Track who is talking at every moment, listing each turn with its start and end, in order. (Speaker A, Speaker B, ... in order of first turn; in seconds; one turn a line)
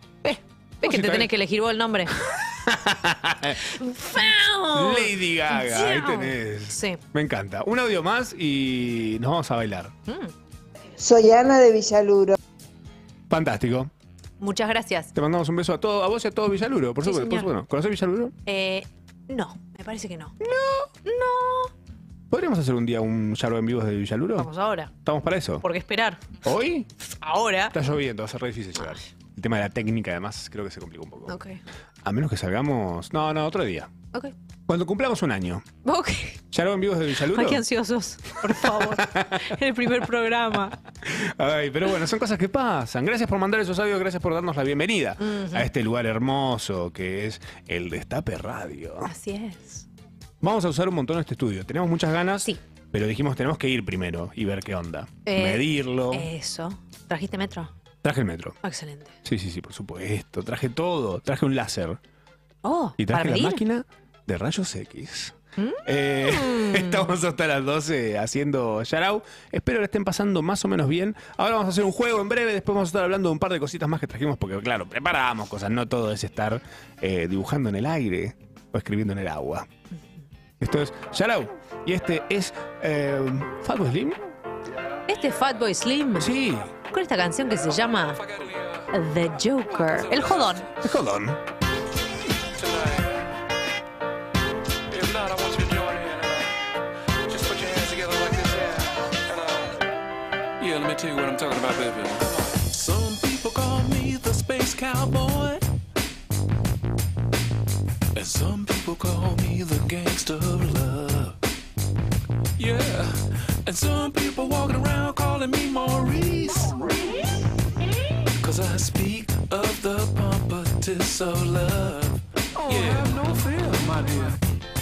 Speaker A: 0.2-2.2
Speaker B: 0.8-1.3
Speaker B: 2.3-3.6
Speaker A: 3.6-7.0
Speaker B: 4.7-9.9
Speaker A: 10.1-10.3
Speaker B: 13.3-13.9
Speaker A: 14.4-15.1
Speaker B: 15.1-18.3
Speaker A: 17.0-17.5
Speaker A: 18.4-20.4
Speaker B: 20.4-20.9
Speaker A: 21.0-21.7
Speaker B: 22.3-24.5
Speaker A: 24.4-24.9
Speaker B: 25.0-25.6
Speaker A: 25.6-26.3
Speaker B: 26.4-26.9
Speaker A: 27.2-27.7
Speaker B: 27.7-31.4
Speaker A: 28.8-29.1
Speaker A: 31.3-31.6
Speaker B: 32.0-33.9
Speaker B: 34.7-35.6
Speaker A: 35.8-36.4
Speaker B: 36.5-37.6
Speaker A: 37.3-40.8
Speaker B: 38.6-39.5
Speaker B: 41.0-49.1
Speaker A: 45.2-45.7
Speaker A: 49.0-49.8
Speaker B: 50.4-56.3
Speaker A: 55.2-57.7
Speaker B: 58.0-58.5
Speaker A: 58.6-59.1
Speaker B: 59.2-62.0
Speaker A: 62.6-63.6
Speaker B: 63.0-79.7
Speaker A: 65.6-67.1
Speaker B: 80.6-84.2
Speaker A: 85.1-86.3
Speaker B: 86.2-86.7
Speaker A: 86.9-88.2
Speaker C: 88.3-88.8
Speaker A: 88.9-90.7
Speaker B: 90.8-91.4
Speaker C: 92.6-93.1
Speaker C: 94.9-96.5
Speaker C: 97.3-98.9
Speaker C: 100.6-105.6
Speaker C: 108.1-111.4
Speaker C: 112.6-117.1
Speaker C: 118.4-124.3